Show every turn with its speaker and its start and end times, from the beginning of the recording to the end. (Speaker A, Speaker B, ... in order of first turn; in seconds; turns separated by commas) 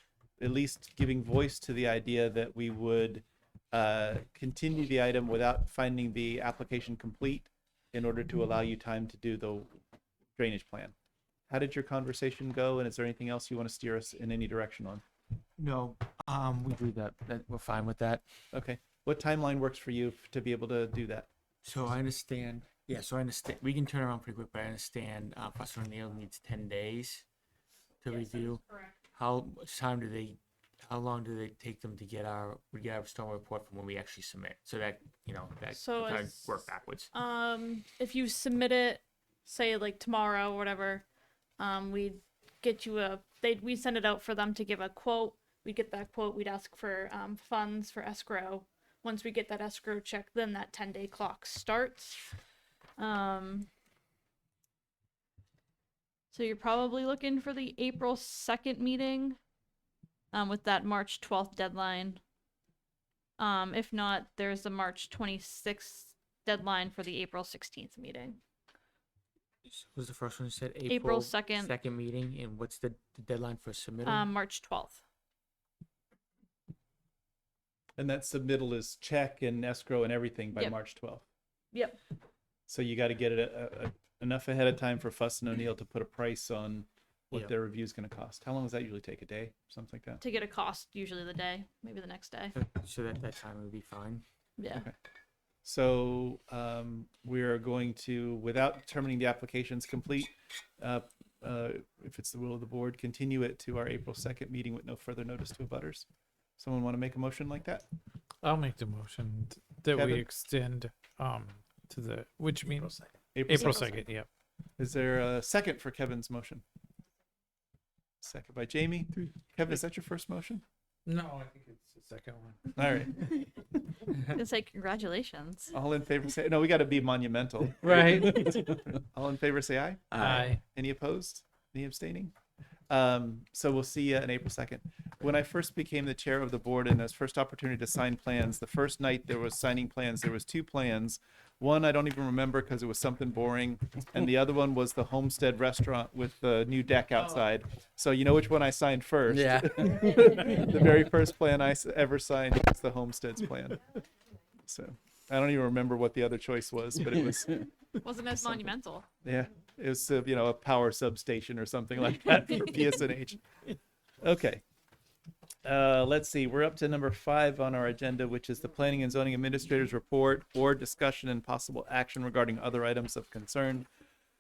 Speaker A: 0.4-9.8, Speaker A: 10.4-10.9, Speaker A: 11.5-15.0, Speaker B: 15.6-18.2, Speaker A: 18.5-21.3, Speaker B: 21.6-27.2, Speaker B: 28.0-37.1, Speaker C: 28.1-29.0, Speaker C: 35.7-41.0, Speaker C: 41.6-52.3, Speaker C: 53.0-53.7, Speaker C: 56.3-59.4, Speaker C: 60.3-62.2, Speaker C: 63.4-68.4, Speaker B: 69.7-74.3, Speaker C: 70.9-71.7, Speaker C: 74.0-75.0, Speaker A: 78.0-81.2, Speaker C: 81.7-82.0, Speaker A: 82.7-90.2, Speaker C: 90.2-92.5, Speaker B: 92.5-94.2, Speaker C: 94.6-94.9, Speaker A: 95.6-106.1, Speaker A: 106.6-107.8, Speaker D: 108.4-112.9, Speaker A: 109.9-110.3, Speaker A: 113.3-114.0, Speaker D: 113.4-114.3, Speaker C: 113.6-114.0, Speaker A: 114.8-116.6, Speaker A: 118.2-120.6, Speaker D: 121.1-122.9, Speaker A: 122.8-123.2, Speaker C: 124.3-125.7, Speaker A: 125.7-132.3, Speaker D: 127.8-128.6, Speaker D: 130.2-130.6, Speaker A: 132.9-153.8, Speaker B: 149.3-149.8, Speaker A: 154.7-157.7, Speaker C: 158.0-159.1, Speaker A: 158.4-158.7, Speaker A: 159.2-163.4, Speaker A: 164.2-164.6, Speaker A: 165.6-173.9